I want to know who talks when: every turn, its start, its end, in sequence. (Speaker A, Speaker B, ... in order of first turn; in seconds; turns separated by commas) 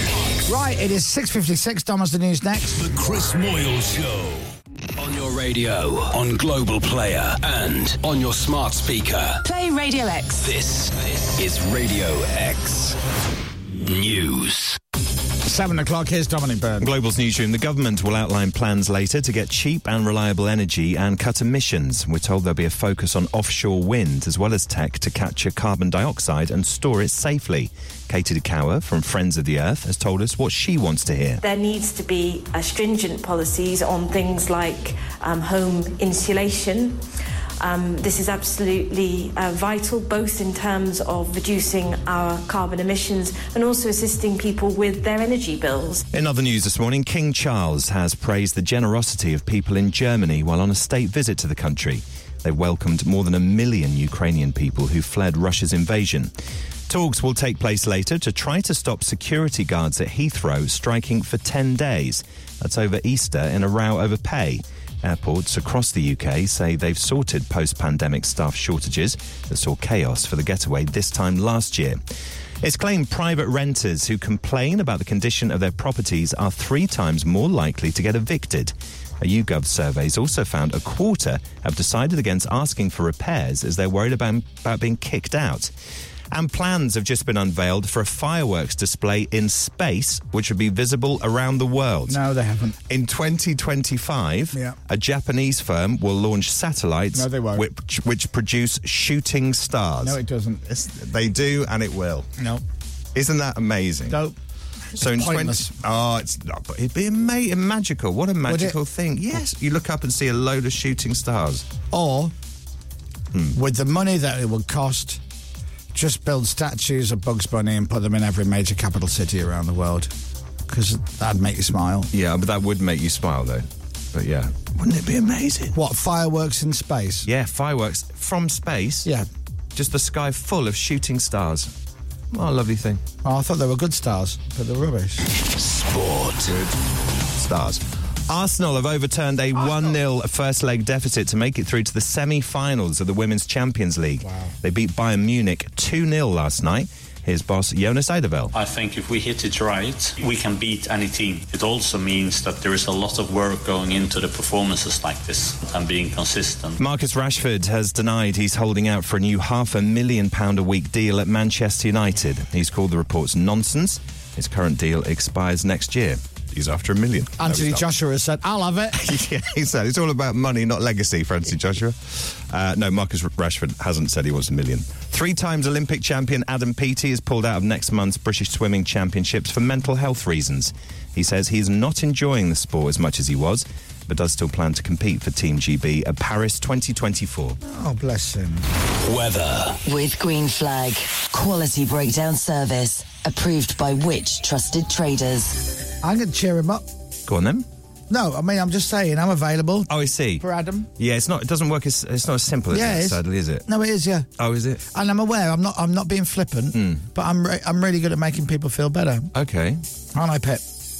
Speaker A: 0.5-2.9, Speaker B: 2.8-9.5, Speaker B: 10.4-13.0, Speaker B: 13.8-14.8, Speaker A: 15.4-16.9, Speaker C: 16.8-31.4, Speaker D: 31.4-36.9, Speaker D: 37.6-46.0, Speaker C: 46.1-56.3, Speaker C: 56.9-72.0, Speaker C: 72.6-85.7, Speaker C: 86.3-92.2, Speaker A: 92.1-92.8, Speaker C: 92.9-100.2, Speaker A: 97.1-97.7, Speaker A: 100.0-100.7, Speaker C: 100.7-102.3, Speaker A: 102.4-102.6, Speaker C: 103.2-104.2, Speaker A: 104.1-104.4, Speaker C: 105.0-111.7, Speaker A: 105.0-105.7, Speaker A: 108.5-108.8, Speaker A: 111.9-112.3, Speaker A: 113.5-115.2, Speaker A: 115.9-120.1, Speaker A: 120.7-122.1, Speaker C: 122.1-125.8, Speaker A: 125.7-127.3, Speaker C: 127.2-129.1, Speaker C: 129.8-131.7, Speaker C: 132.3-133.0, Speaker A: 133.2-135.2, Speaker B: 135.6-136.4, Speaker C: 137.4-148.5, Speaker A: 144.2-144.5, Speaker E: 148.5-156.8, Speaker C: 156.8-167.9, Speaker A: 167.4-169.2, Speaker C: 169.0-187.6, Speaker A: 187.6-188.7, Speaker B: 189.1-189.8, Speaker F: 189.8-195.7, Speaker A: 196.0-196.9, Speaker C: 197.3-197.7, Speaker A: 198.1-200.9, Speaker C: 199.9-200.4, Speaker C: 201.0-203.7, Speaker A: 202.7-204.3, Speaker C: 204.4-204.8, Speaker A: 204.9-209.3, Speaker C: 206.8-207.0, Speaker C: 209.3-209.8, Speaker A: 210.1-210.6